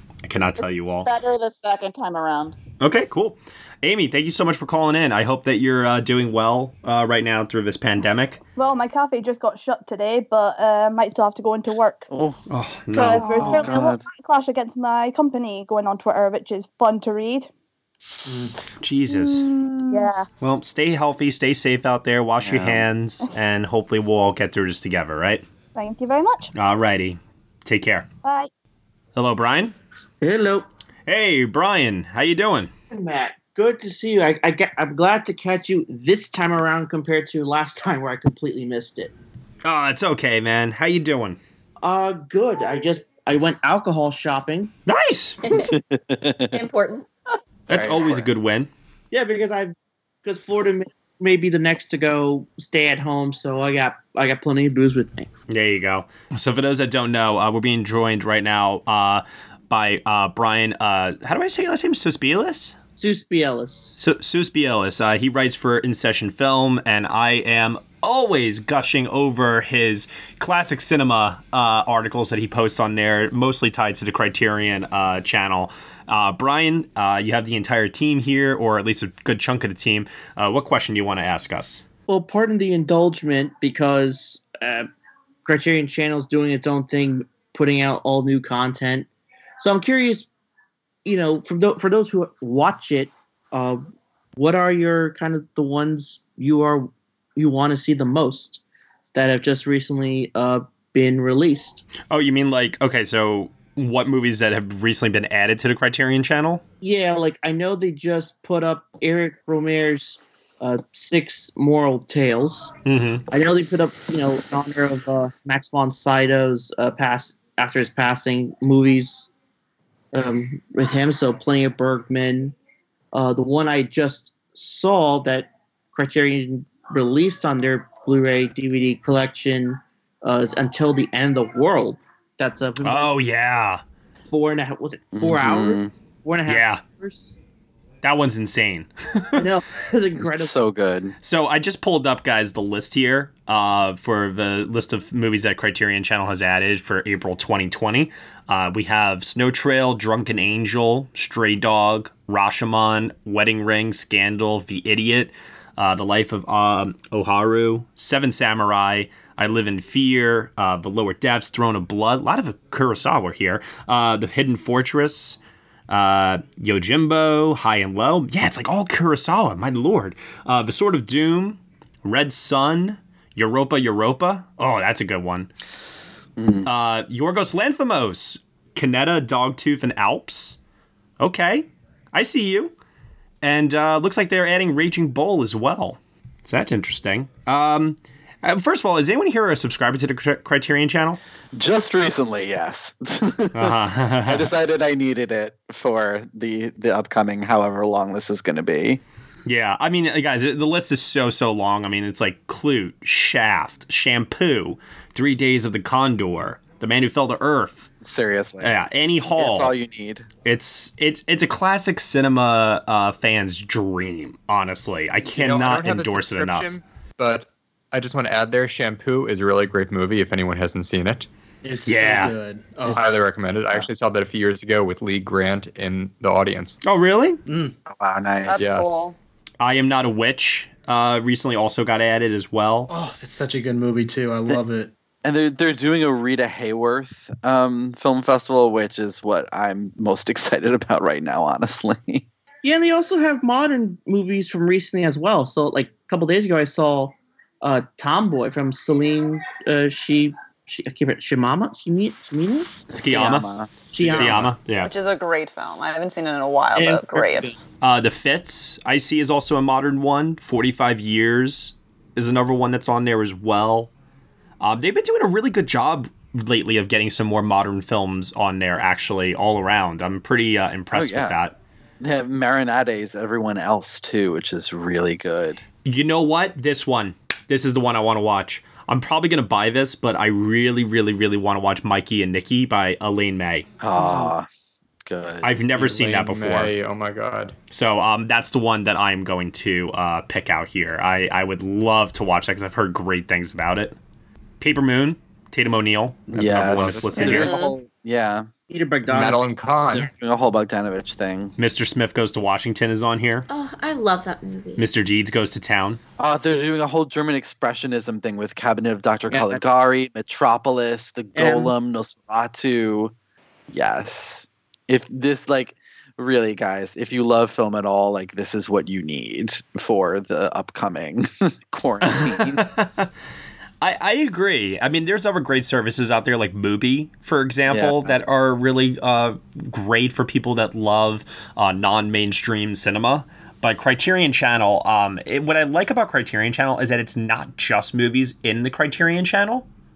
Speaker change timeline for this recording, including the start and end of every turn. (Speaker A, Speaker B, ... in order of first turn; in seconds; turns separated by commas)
Speaker A: 0.2-1.1, Speaker B: 0.6-2.6, Speaker A: 2.8-8.4, Speaker C: 8.6-12.1, Speaker D: 12.1-12.4, Speaker A: 12.5-13.4, Speaker D: 12.9-14.1, Speaker C: 12.9-17.5, Speaker E: 13.3-13.7, Speaker E: 18.2-18.5, Speaker A: 18.8-19.5, Speaker C: 19.9-20.3, Speaker A: 20.4-25.4, Speaker D: 22.4-22.8, Speaker C: 25.7-26.5, Speaker A: 26.5-28.1, Speaker C: 28.2-28.5, Speaker A: 29.1-29.7, Speaker F: 30.2-30.6, Speaker A: 31.1-32.7, Speaker F: 32.9-39.1, Speaker A: 39.6-41.4, Speaker F: 41.8-44.7, Speaker A: 44.9-45.4, Speaker G: 45.4-45.7, Speaker D: 45.5-46.6, Speaker G: 46.5-47.2, Speaker A: 47.7-48.7, Speaker D: 47.7-48.3, Speaker F: 49.1-55.3, Speaker A: 55.5-62.8, Speaker F: 63.0-64.0, Speaker A: 64.0-81.8, Speaker F: 82.1-84.9, Speaker F: 85.4-90.3, Speaker F: 91.0-93.8, Speaker F: 94.3-98.6, Speaker F: 99.1-101.8, Speaker A: 102.1-106.6, Speaker F: 106.8-112.7, Speaker A: 112.8-113.2, Speaker F: 113.3-119.3, Speaker F: 120.1-122.5, Speaker F: 123.1-133.1, Speaker A: 132.8-133.8, Speaker F: 134.2-137.3, Speaker D: 135.1-135.9, Speaker A: 136.5-136.8, Speaker A: 138.0-139.4, Speaker F: 139.4-140.5, Speaker D: 140.2-141.1, Speaker A: 141.2-165.4, Speaker A: 165.9-175.5, Speaker D: 176.4-176.7, Speaker A: 176.6-180.6, Speaker A: 181.2-182.7, Speaker A: 183.4-191.2, Speaker D: 191.5-193.7, Speaker A: 193.5-194.5, Speaker D: 194.3-199.0, Speaker A: 199.4-207.9, Speaker D: 208.0-208.7, Speaker A: 208.6-209.7, Speaker D: 209.3-210.2, Speaker A: 210.4-216.7, Speaker H: 215.2-221.3, Speaker E: 221.6-223.3, Speaker A: 221.8-222.3, Speaker H: 222.9-226.8, Speaker D: 223.5-223.9, Speaker A: 226.8-227.4, Speaker E: 227.4-227.7, Speaker D: 227.9-228.7, Speaker I: 228.4-229.1, Speaker H: 228.6-229.0, Speaker A: 229.6-232.9, Speaker E: 232.9-234.9, Speaker D: 235.2-242.2, Speaker F: 242.6-252.8, Speaker A: 252.9-253.5, Speaker D: 252.9-254.5, Speaker F: 253.9-254.5, Speaker A: 254.0-254.9, Speaker I: 254.8-257.5, Speaker F: 256.7-257.6, Speaker A: 257.8-263.9, Speaker A: 264.6-271.6, Speaker D: 270.9-271.4, Speaker D: 272.0-275.6, Speaker A: 275.8-283.6, Speaker D: 283.8-284.5, Speaker D: 285.1-285.5, Speaker A: 285.4-286.7, Speaker H: 285.7-287.5, Speaker A: 287.7-293.9, Speaker A: 294.6-297.6, Speaker D: 296.3-298.5, Speaker H: 296.3-297.4, Speaker I: 297.4-297.7, Speaker F: 298.7-299.4, Speaker H: 299.1-300.1, Speaker D: 299.9-301.5, Speaker A: 301.6-303.4, Speaker G: 303.5-304.9, Speaker A: 304.8-306.0, Speaker D: 306.2-313.1, Speaker F: 309.3-309.6, Speaker F: 311.3-311.7, Speaker D: 313.7-322.7, Speaker A: 322.1-323.1, Speaker A: 323.8-339.7, Speaker D: 327.7-328.2